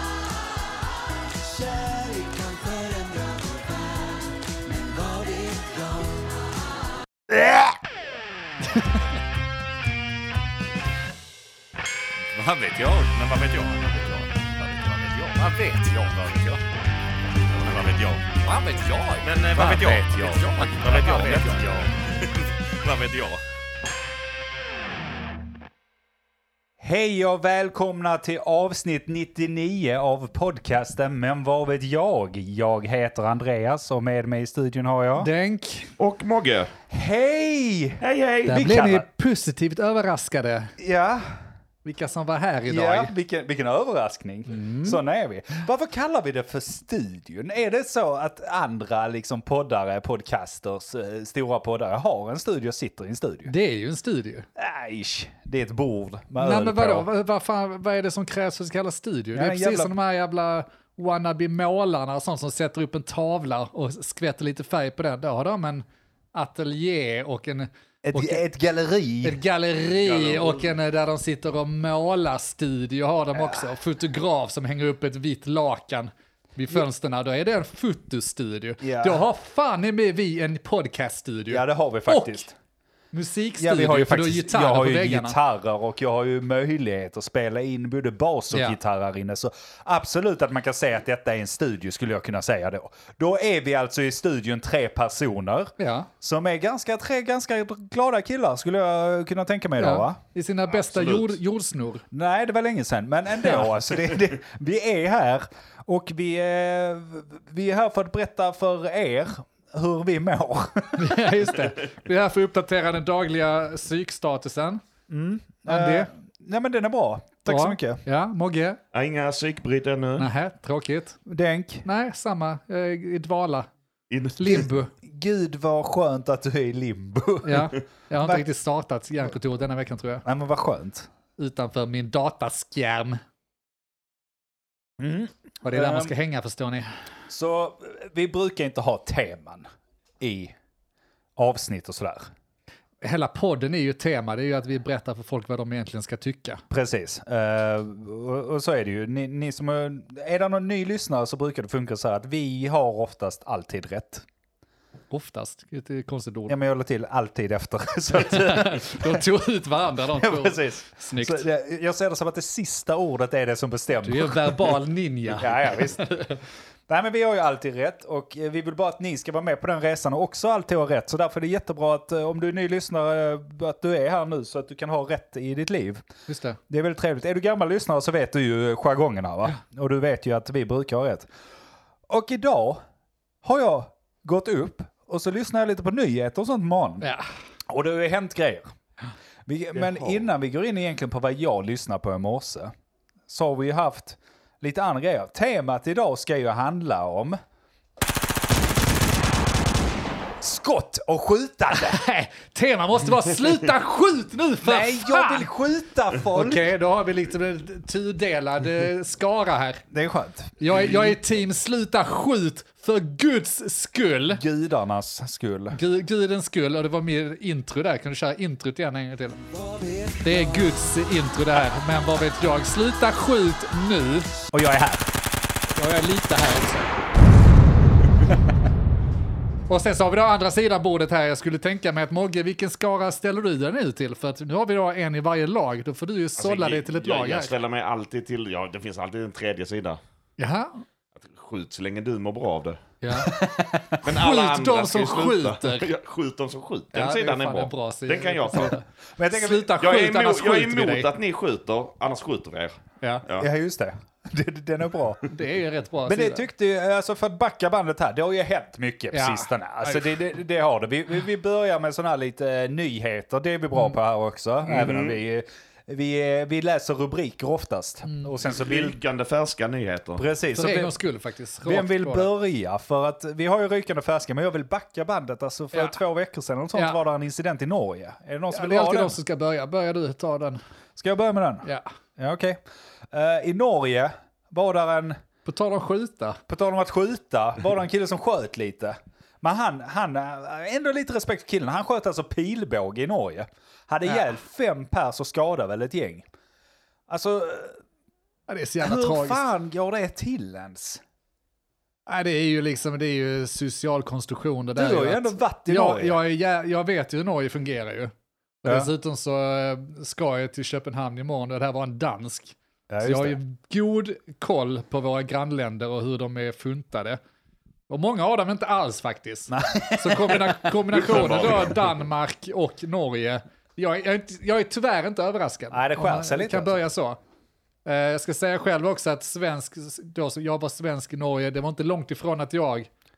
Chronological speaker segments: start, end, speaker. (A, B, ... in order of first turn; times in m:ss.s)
0:01.4-0:06.4 A
0:07.3-0:07.8 B
0:12.4-0:16.6 C
0:17.4-0:18.4 C
0:19.2-0:23.4 C
0:19.5-0:21.8 B
0:26.8-0:35.3 B
0:35.2-0:35.9 D
0:36.0-0:36.7 C
0:36.9-0:39.0 B
0:38.0-0:38.6 C
0:38.5-0:40.7 D
0:40.8-0:41.4 B
0:41.8-0:43.1 D
0:42.7-0:53.5 B
0:44.5-0:45.0 D
0:53.4-0:54.5 D
0:54.6-0:57.1 B
0:56.4-1:08.4 D
0:59.3-0:59.9 B
1:08.0-1:09.4 B
1:09.2-1:22.4 D
1:10.0-1:10.8 C
1:13.3-1:13.7 B
1:18.8-1:19.2 B
1:21.5-1:22.6 B
1:23.1-1:25.4 D
1:23.6-1:40.2 B
1:28.5-1:28.8 D
1:35.8-1:36.1 D
1:39.8-1:42.0 D
1:40.7-1:41.4 C
1:42.1-1:51.3 B
1:43.4-1:43.7 D
1:51.0-1:54.8 D
1:55.1-1:58.0 B
1:55.7-1:56.1 D
1:57.5-1:58.8 D
1:58.9-2:00.3 C
2:00.2-2:01.2 D
2:01.3-2:01.8 B
2:01.8-2:03.7 D
2:04.1-2:04.7 C
2:04.4-2:04.9 D
2:05.0-2:08.4 B
2:07.4-2:10.2 D
2:10.2-2:11.1 B
2:11.4-2:13.2 D
2:15.0-2:16.1 B
2:15.6-2:16.9 D
2:17.3-2:19.7 B
2:20.2-2:20.5 B
2:21.4-2:22.3 B
2:23.0-2:26.6 D
2:26.7-2:34.2 B
2:35.1-2:36.6 D
2:36.5-2:39.2 B
2:38.2-2:41.4 D
2:40.1-2:44.7 B
2:44.0-2:46.4 D
2:45.4-2:56.0 B
2:56.3-2:56.6 D
2:56.7-3:01.3 B
3:02.1-3:02.8 B
3:03.4-3:07.1 B
3:07.0-3:07.3 D
3:07.7-3:08.7 B
3:09.4-3:12.7 B
3:09.8-3:10.2 C
3:13.3-3:17.4 B
3:20.4-3:22.0 B
3:21.7-3:25.5 D
3:24.6-3:26.6 B
3:26.3-3:29.8 D
3:29.9-3:30.9 B
3:30.6-3:34.4 D
3:34.3-3:35.8 B
3:35.7-3:39.4 D
3:39.5-3:40.7 A
3:40.2-3:44.3 D
3:44.5-3:45.1 B
3:45.7-3:46.9 D
3:49.7-3:57.5 D
3:56.4-4:00.0 C
4:00.4-4:00.8 D
4:01.1-4:02.8 C
4:03.0-4:03.4 D
4:03.1-4:04.0 B
4:04.0-4:05.9 D
4:04.0-4:08.8 C
4:06.9-4:11.1 D
4:09.1-4:09.7 B
4:09.8-4:13.5 C
4:13.3-4:15.3 B
4:15.3-4:16.4 D
4:16.0-4:29.0 B
4:19.1-4:20.2 D
4:24.6-4:25.2 C
4:28.5-4:30.2 C
4:30.2-4:30.9 B
4:30.5-4:32.3 D
4:31.6-4:39.2 B
4:38.5-4:40.6 D
4:41.0-4:42.6 B
4:43.1-4:45.2 B
4:45.4-4:46.4 D
4:46.5-4:56.2 B
4:57.1-4:57.8 B
4:58.5-4:59.4 D
4:58.8-5:01.0 B
5:02.1-5:08.1 D
5:04.8-5:06.2 B
5:08.6-5:17.2 D
5:12.9-5:13.4 B
5:17.9-5:27.2 D
5:19.5-5:21.5 B
5:20.9-5:21.8 C
5:25.7-5:26.8 B
5:27.8-5:32.9 D